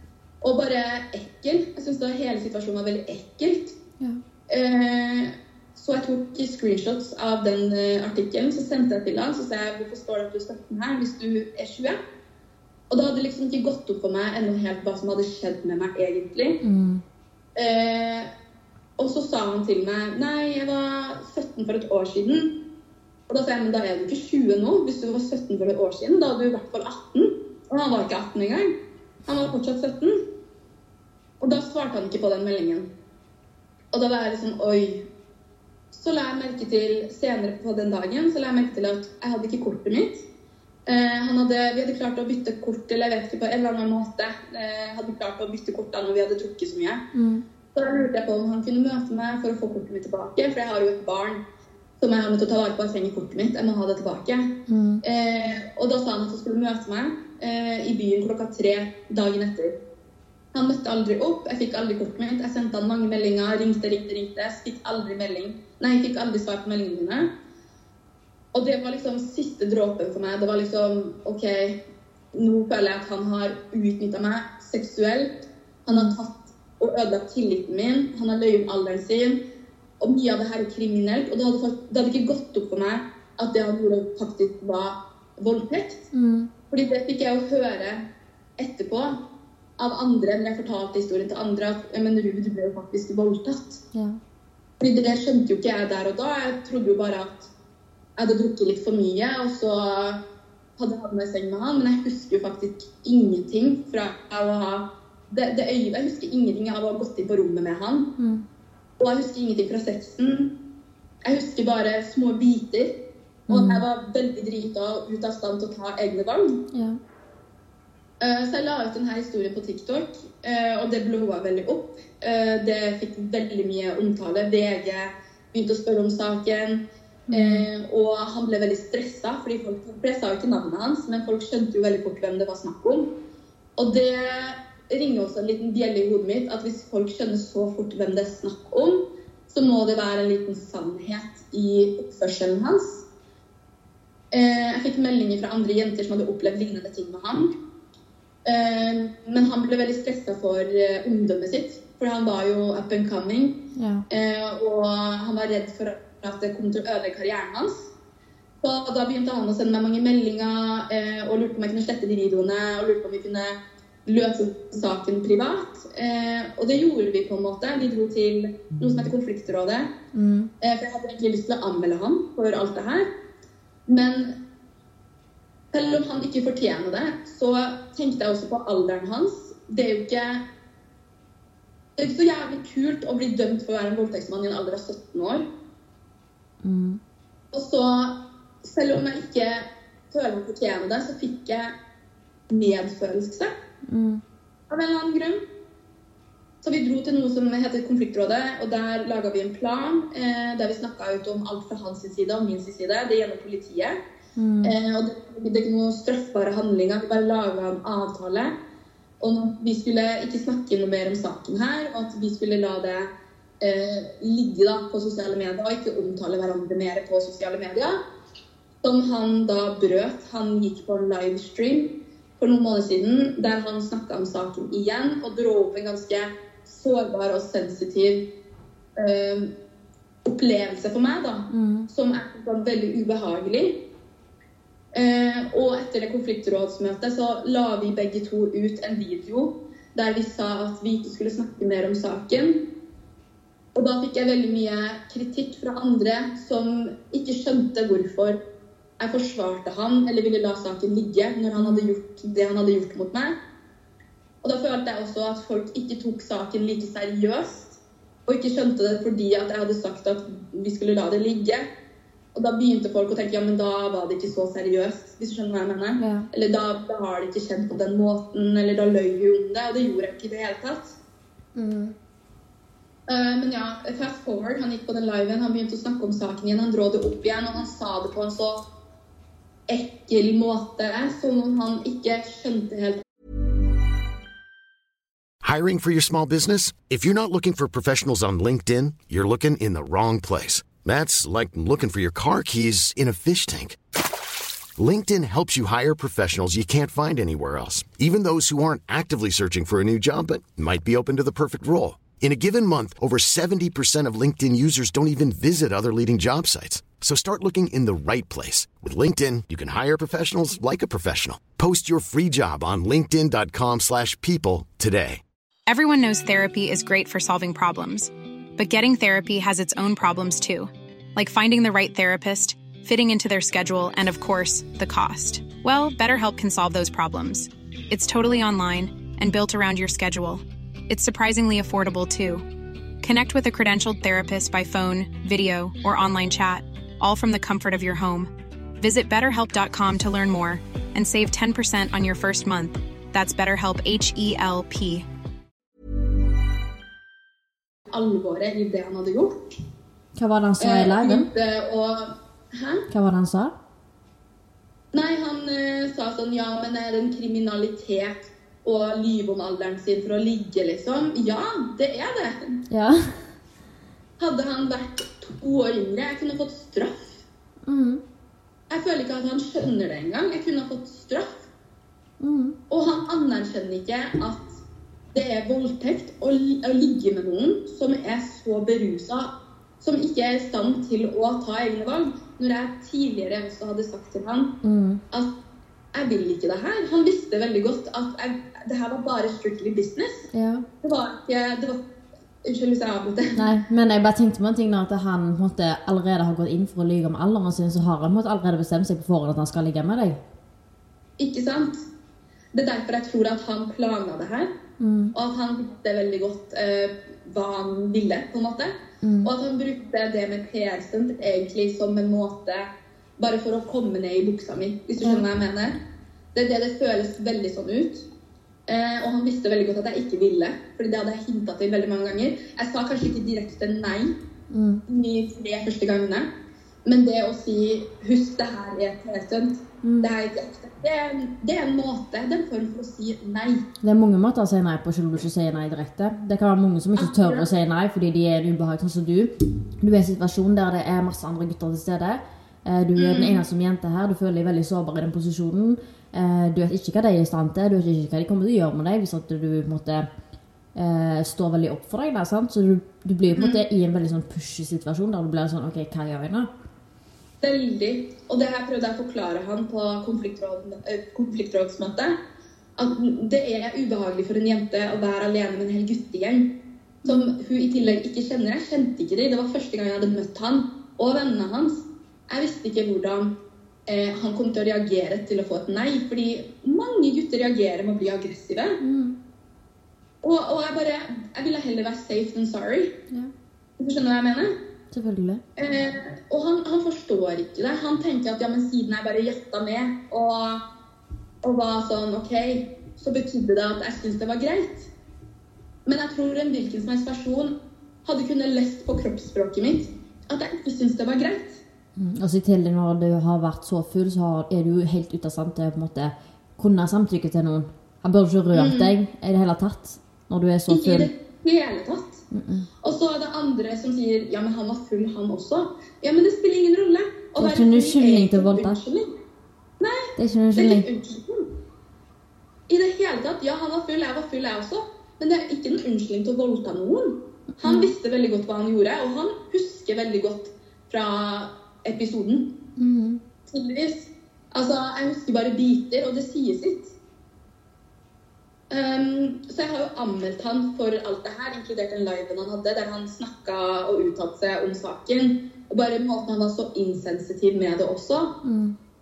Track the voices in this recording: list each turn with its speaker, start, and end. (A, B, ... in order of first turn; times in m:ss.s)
0:00.4-0:03.8 A
0:04.5-0:12.0 A
0:12.9-0:16.6 A
0:16.6-0:17.0 B
0:17.6-0:18.3 A
0:19.0-0:22.6 A
0:23.3-0:28.7 A
0:29.2-0:30.2 A
0:31.4-0:32.9 A
0:33.9-0:35.1 A
0:35.9-0:40.2 A
0:40.9-0:47.0 A
0:47.1-0:47.4 B
0:47.7-0:51.4 A
0:52.0-0:59.8 A
0:54.7-0:55.0 B
1:00.5-1:07.3 A
1:08.5-1:11.8 A
1:12.3-1:19.4 A
1:20.0-1:26.0 A
1:26.1-1:26.5 B
1:26.7-1:28.0 A
1:28.6-1:29.2 A
1:29.8-1:33.8 A
1:33.9-1:34.2 B
1:34.8-1:37.5 A
1:38.2-1:40.2 A
1:40.8-1:48.1 A
1:48.2-1:48.4 B
1:49.0-1:50.5 A
1:51.2-1:52.9 A
1:53.5-1:53.8 B
1:53.5-1:56.6 A
1:56.7-1:57.0 B
1:58.2-2:13.1 A
2:07.3-2:07.6 B
2:13.8-2:23.0 A
2:24.3-2:27.5 A
2:28.4-2:37.9 A
2:33.8-2:34.0 B
2:38.6-2:49.9 A
2:50.1-2:50.5 B
2:50.6-2:53.1 A
2:53.9-2:54.4 A
2:55.7-3:00.4 A
3:02.0-3:05.5 A
3:06.6-3:07.0 B
3:07.5-3:11.7 A
3:12.5-3:13.5 A
3:13.9-3:14.2 B
3:14.7-3:15.4 A
3:16.6-3:24.0 A
3:24.4-3:24.7 B
3:24.6-3:28.6 A
3:29.2-3:38.0 A
3:38.8-3:48.3 A
3:49.0-3:49.5 A
3:50.2-3:53.8 A
3:51.5-3:51.9 B
3:54.9-4:02.6 A
4:03.7-4:08.4 A
4:09.0-4:13.4 A
4:11.6-4:11.9 B
4:14.4-4:21.7 A
4:22.3-4:31.0 A
4:26.0-4:26.3 B
4:31.5-4:32.0 B
4:33.1-4:38.6 A
4:39.7-4:43.0 A
4:45.4-4:53.8 C
4:54.8-5:15.2 C
5:15.7-5:32.4 D
5:33.0-5:45.0 D
5:47.9-5:49.5 A
5:50.2-5:51.3 B
5:50.6-5:52.9 A
5:52.9-5:53.5 B
5:54.9-6:02.6 A
6:02.7-6:03.4 B
6:04.2-6:07.2 A
6:07.6-6:08.0 B
6:08.7-6:11.5 A
6:12.2-6:12.6 B
6:12.7-6:14.6 A
6:15.1-6:24.6 A
6:24.6-6:25.0 B
6:25.9-6:30.3 A
6:30.3-6:30.6 B
6:30.8-6:31.8 A
6:32.4-6:33.4 A
6:33.3-6:40.2 B
6:41.2-6:41.8 A
6:42.5-6:44.5 A
6:44.8-6:45.1 B
6:45.1-6:55.8 A
6:49.0-6:49.3 B
6:56.3-6:58.0 A
6:58.7-7:04.1 A
7:04.5-7:04.8 B
7:04.9-7:06.3 A
7:06.8-7:13.6 A
7:09.8-7:10.1 B
7:13.8-7:30.1 B
7:17.0-7:17.5 A
7:23.0-7:23.4 A
7:30.8-7:36.5 B
7:33.3-7:33.6 A
7:37.4-7:42.2 A
7:42.8-7:46.5 A
7:47.0-7:53.4 A
7:47.0-7:47.3 B
7:53.9-7:58.8 A
7:58.8-7:59.2 B
8:00.2-8:03.0 A
8:03.8-8:04.6 A
8:04.9-8:05.4 B
8:05.6-8:10.6 A
8:11.4-8:14.9 A
8:15.8-8:21.6 A
8:22.0-8:31.1 B
8:28.5-8:28.9 A
8:30.7-8:32.2 A
8:32.3-8:32.7 B
8:32.8-8:39.1 A
8:37.4-8:38.8 B
8:39.8-8:41.5 A
8:40.2-8:40.8 B
8:42.7-8:52.5 A
8:47.6-8:47.9 B
8:52.8-8:53.2 B
8:53.5-8:56.9 A
8:58.7-9:08.4 A
9:08.4-9:08.8 B